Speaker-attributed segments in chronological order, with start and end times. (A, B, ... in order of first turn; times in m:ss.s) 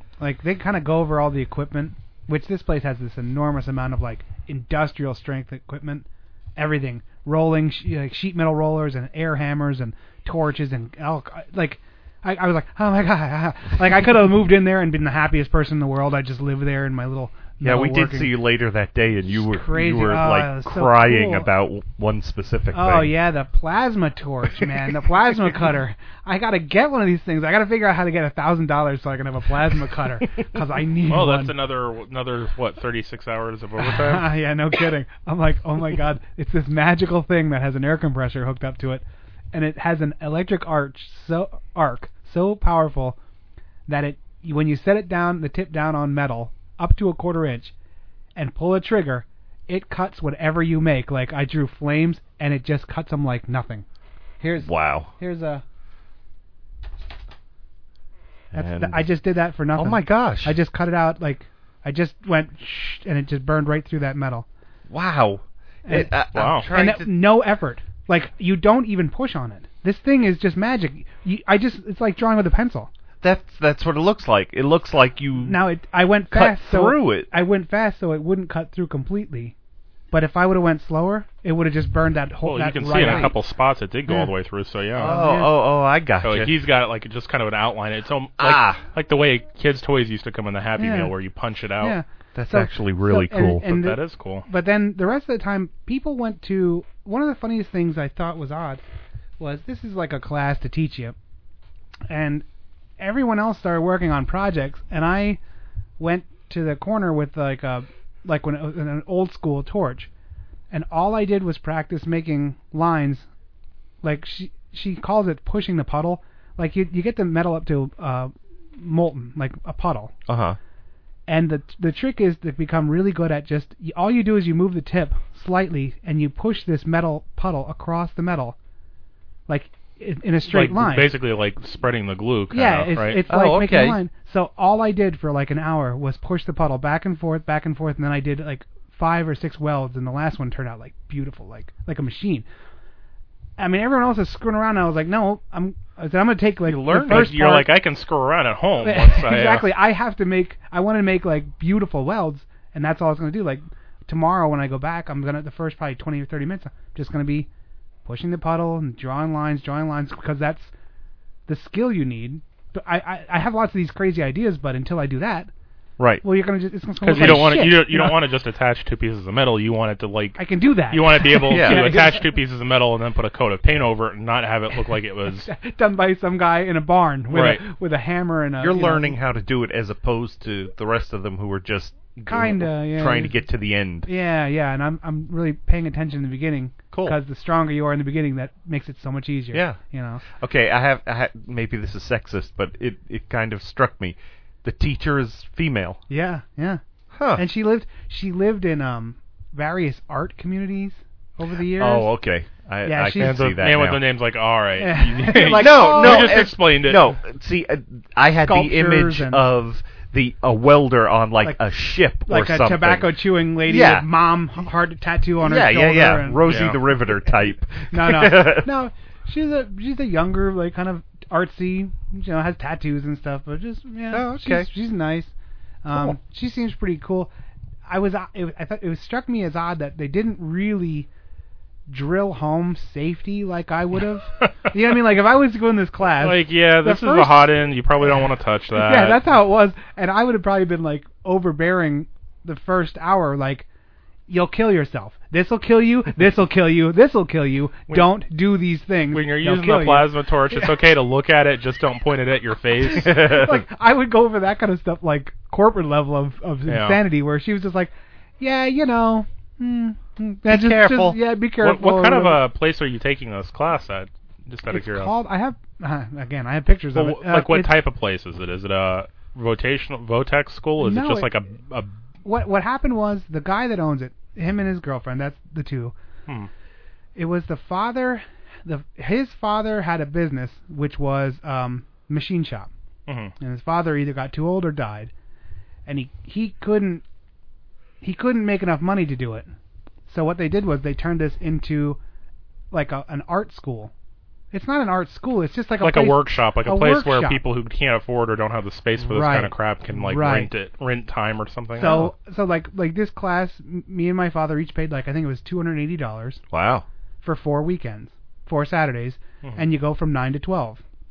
0:00.2-0:18.3 A
0:17.6-0:23.1 B
0:19.3-0:21.5 A
0:22.7-0:31.5 A
0:31.1-0:34.3 C
0:33.8-0:43.2 A
0:43.9-0:47.7 A
0:48.4-0:53.8 A
0:54.4-0:55.6 A
0:54.6-0:55.1 B
0:58.5-0:59.1 B
0:58.5-1:04.4 A
0:59.8-1:00.6 B
1:04.9-1:07.1 B
1:05.8-1:12.9 A
1:06.3-1:06.7 C
1:13.2-1:15.6 B
1:15.4-1:19.5 A
1:16.3-1:17.3 B
1:20.1-1:23.3 A
1:22.4-1:25.1 C
1:22.9-1:23.3 B
1:25.0-1:25.6 A
1:25.0-1:26.5 B
1:26.2-1:32.0 C
1:28.4-1:28.8 B
1:30.8-1:31.1 A
1:31.8-1:38.8 A
1:32.3-1:33.7 B
1:33.6-1:34.4 C
1:39.4-1:41.2 A
1:42.1-1:42.4 A
1:43.0-1:45.4 A
1:46.0-1:50.1 A
1:50.7-1:53.3 A
1:54.0-2:00.1 A
2:00.3-2:00.6 B
2:01.3-2:08.6 A
2:09.5-2:11.1 A
2:10.5-2:13.2 C
2:12.5-2:22.4 A
2:13.3-2:14.0 B
2:23.6-2:27.7 A
2:26.7-2:29.7 C
2:26.9-2:27.3 B
2:28.8-2:37.5 A
2:38.0-2:40.7 A
2:41.5-2:45.5 A
2:46.0-2:46.2 B
2:46.2-2:48.2 A
2:47.0-2:55.5 C
2:47.2-2:47.4 B
2:50.4-2:52.3 A
2:51.5-2:52.0 B
2:55.4-2:59.2 A
2:57.3-2:57.6 C
2:58.6-3:04.1 B
3:02.3-3:03.4 A
3:04.0-3:10.2 A
3:09.5-3:16.0 B
3:16.1-3:16.8 A
3:17.1-3:17.4 B
3:17.3-3:22.1 A
3:21.7-3:24.0 B
3:22.8-3:23.4 A
3:23.2-3:27.2 C
3:24.8-3:26.4 A
3:25.3-3:34.1 B
3:28.4-3:29.4 A
3:32.2-3:37.3 A
3:35.4-3:38.7 B
3:36.4-3:36.8 C
3:37.9-3:45.3 A
3:44.1-3:44.7 B
3:45.8-3:47.3 A
3:45.9-3:46.2 B
3:47.9-3:51.1 A
3:51.9-3:57.5 A
3:56.2-3:59.2 C
3:58.7-4:03.6 A
4:04.3-4:10.7 A
4:09.1-4:13.4 C
4:12.8-4:22.4 A
4:13.0-4:13.6 B
4:16.7-4:17.0 C
4:20.4-4:21.2 B
4:21.6-4:25.1 C
4:24.7-4:27.8 A
4:26.9-4:31.9 C
4:30.8-4:31.3 A
4:32.2-4:35.9 A
4:37.2-4:42.7 A
4:43.1-4:43.3 C
4:43.4-4:45.1 A
4:45.8-4:47.0 A
4:48.0-4:49.5 A
4:50.1-4:52.0 A
4:52.7-4:53.9 A
4:54.5-4:57.4 A
4:55.8-5:02.1 C
4:59.0-5:00.5 A
5:01.8-5:06.4 A
5:06.5-5:06.8 B
5:07.2-5:10.8 A